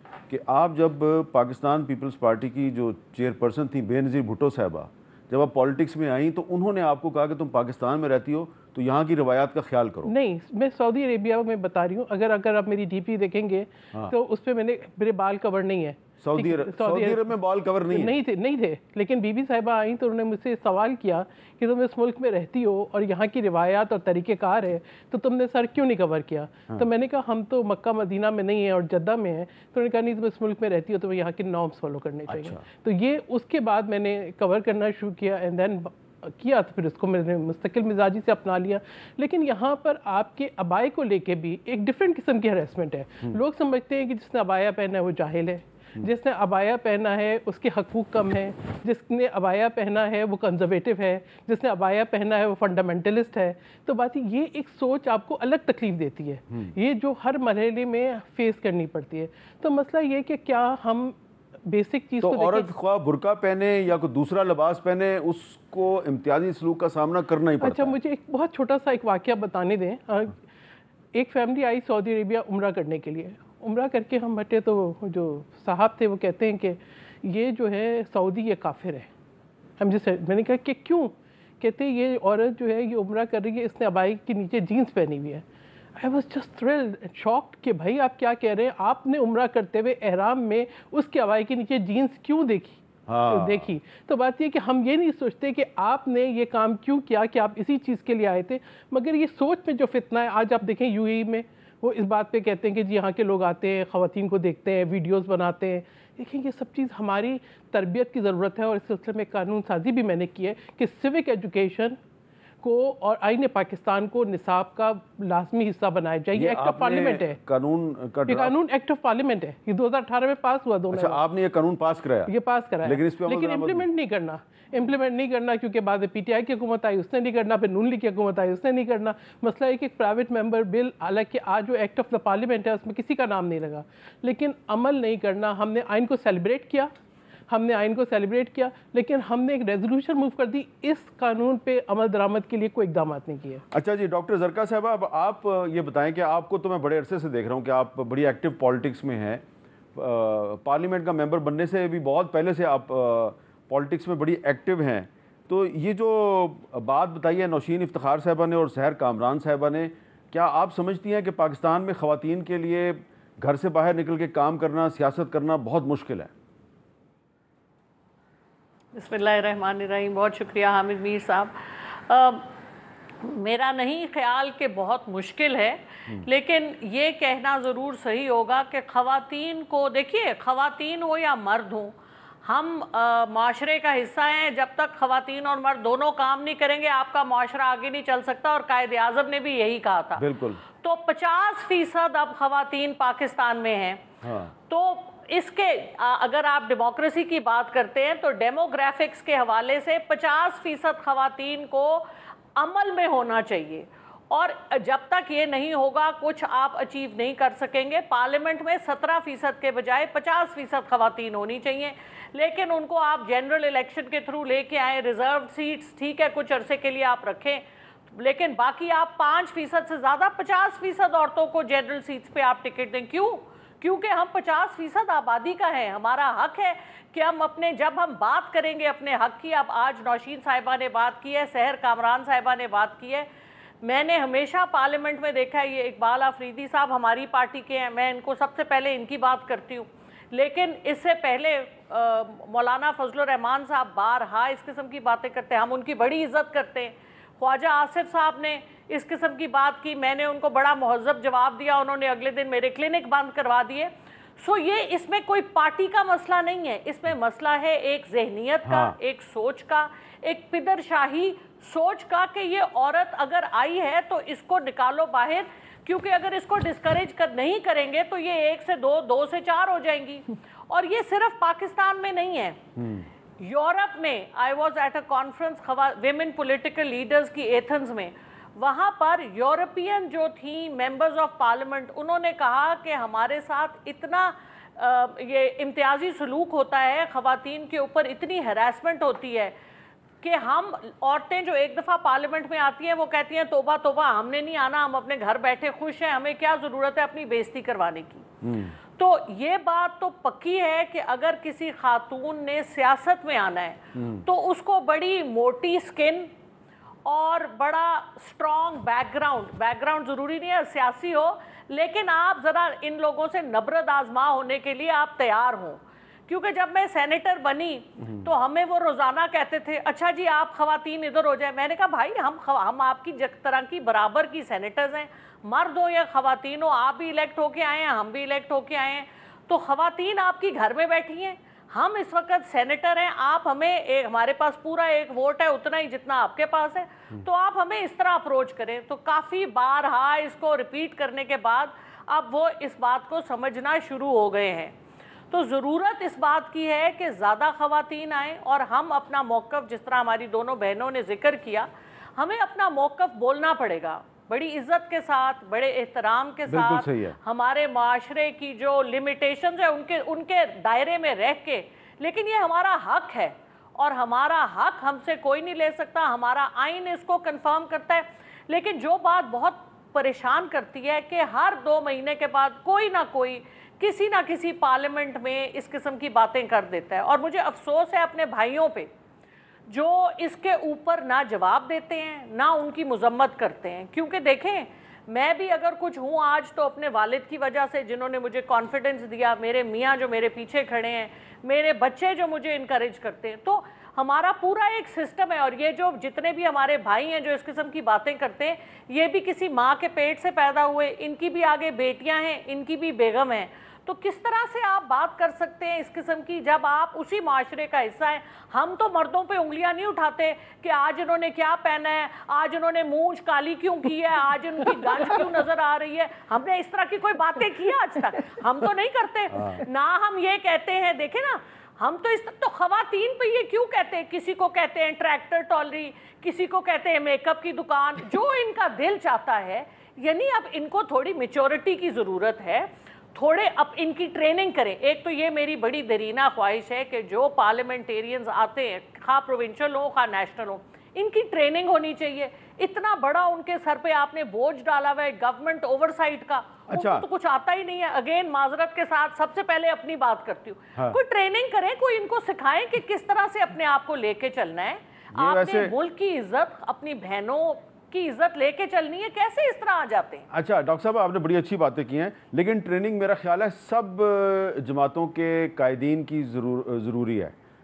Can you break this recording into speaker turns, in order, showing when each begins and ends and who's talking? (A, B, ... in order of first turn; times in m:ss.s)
0:00.3-0:10.1 A
0:10.0-0:17.4 B
0:16.2-0:18.2 A
0:17.9-1:02.7 B
0:32.3-0:32.6 A
1:02.2-1:07.9 A
1:07.6-1:10.4 B
1:11.1-1:19.1 B
1:19.8-1:25.4 B
1:26.0-1:52.0 B
1:33.1-1:33.7 A
1:52.6-1:57.4 B
1:56.3-1:58.6 A
1:58.3-2:01.2 B
2:00.9-2:02.3 A
2:02.3-2:16.9 B
2:02.8-2:03.9 A
2:17.5-2:23.6 B
2:23.7-2:29.4 A
2:29.9-2:46.3 A
2:48.9-2:52.5 C
2:53.2-3:10.2 C
3:10.2-3:10.6 A
3:10.8-3:14.0 C
3:14.2-3:14.5 A
3:14.7-3:53.3 C
3:53.8-4:32.6 C
4:18.6-4:19.0 A
4:32.8-4:33.0 A
4:33.4-4:49.5 C
4:50.2-4:58.3 C
4:58.4-4:58.7 A
4:59.0-5:06.3 C
5:04.0-5:04.2 A
5:07.0-5:44.7 C
5:45.3-6:18.9 C
5:56.5-5:57.2 A
6:19.7-7:40.2 C
6:59.3-6:59.6 A
7:26.7-7:27.0 A
7:35.1-7:35.7 A
7:40.3-7:47.3 A